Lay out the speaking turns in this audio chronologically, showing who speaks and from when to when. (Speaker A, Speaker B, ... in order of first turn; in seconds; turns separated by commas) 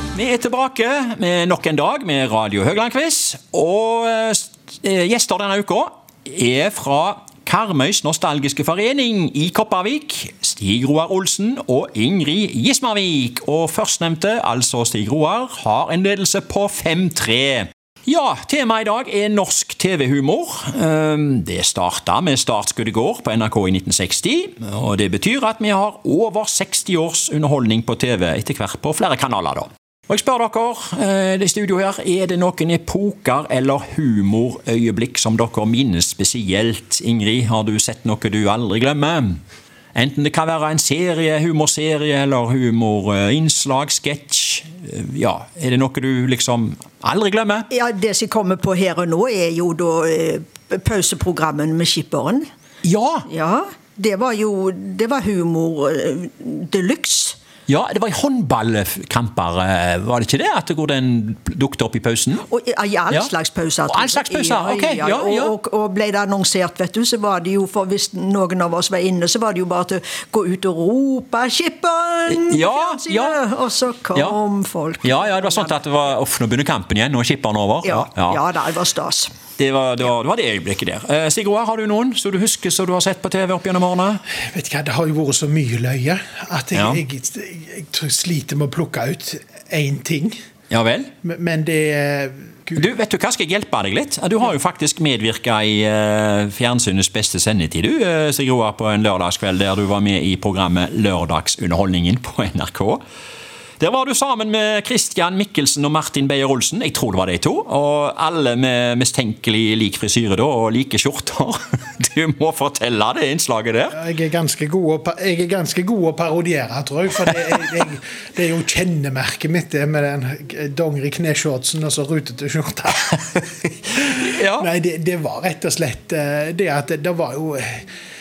Speaker A: 0.1-39.4, Speaker A: 40.0-47.7, Speaker B: 47.7-52.5, Speaker A: 52.8-53.3, Speaker B: 53.3-57.4, Speaker A: 57.7-62.5, Speaker B: 62.5-75.8, Speaker A: 63.9-65.5, Speaker A: 72.3-73.4, Speaker A: 75.0-78.4, Speaker B: 77.8-79.3, Speaker A: 79.6-84.2, Speaker C: 84.5-90.3, Speaker A: 86.8-87.0, Speaker A: 90.7-91.1, Speaker C: 91.2-92.9, Speaker A: 92.8-103.0, Speaker A: 103.8-114.0, Speaker C: 113.9-123.4, Speaker C: 123.9-127.8, Speaker A: 124.2-124.7